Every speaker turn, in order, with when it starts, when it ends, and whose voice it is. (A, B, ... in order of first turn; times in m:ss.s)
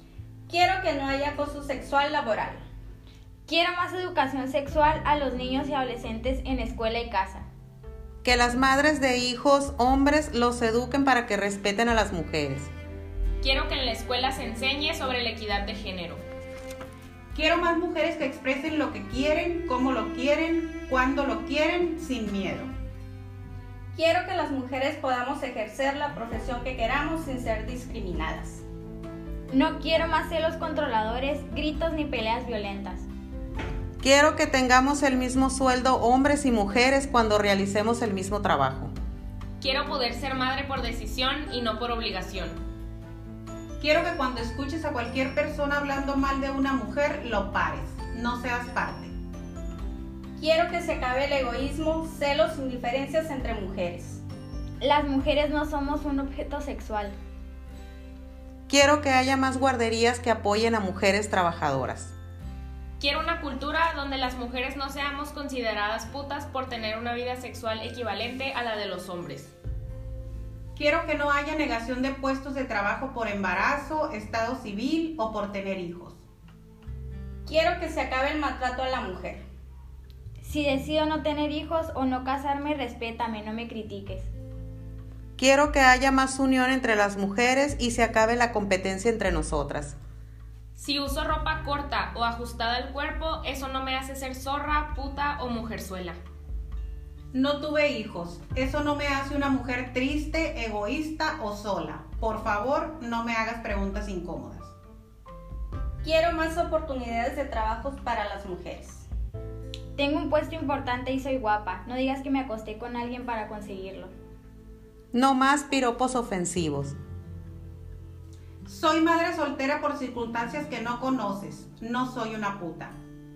0:00.5-0:02.6 A
0:03.5-0:07.4 B
0:08.2-0:12.7 C
0:13.4-0:16.2 D
0:17.3-0:22.7 E
0:23.9-0:28.6 A
0:29.5-0:33.0 B
0:34.0-0:38.9 C
0:39.6-0:42.6 D
0:43.8-0:49.1 E
0:50.4-0:54.2 A
0:54.8-0:57.1 B
0:58.7-1:02.1 C
1:03.0-1:09.5 D
1:10.7-1:16.2 E
1:17.4-1:19.4 A
1:20.4-1:24.3 B
1:25.4-1:30.0 C
1:30.7-1:36.2 D
1:37.3-1:44.7 E
1:46.0-1:49.1 A
1:50.0-1:54.1 B
1:55.1-1:56.9 C
1:58.6-2:02.9 E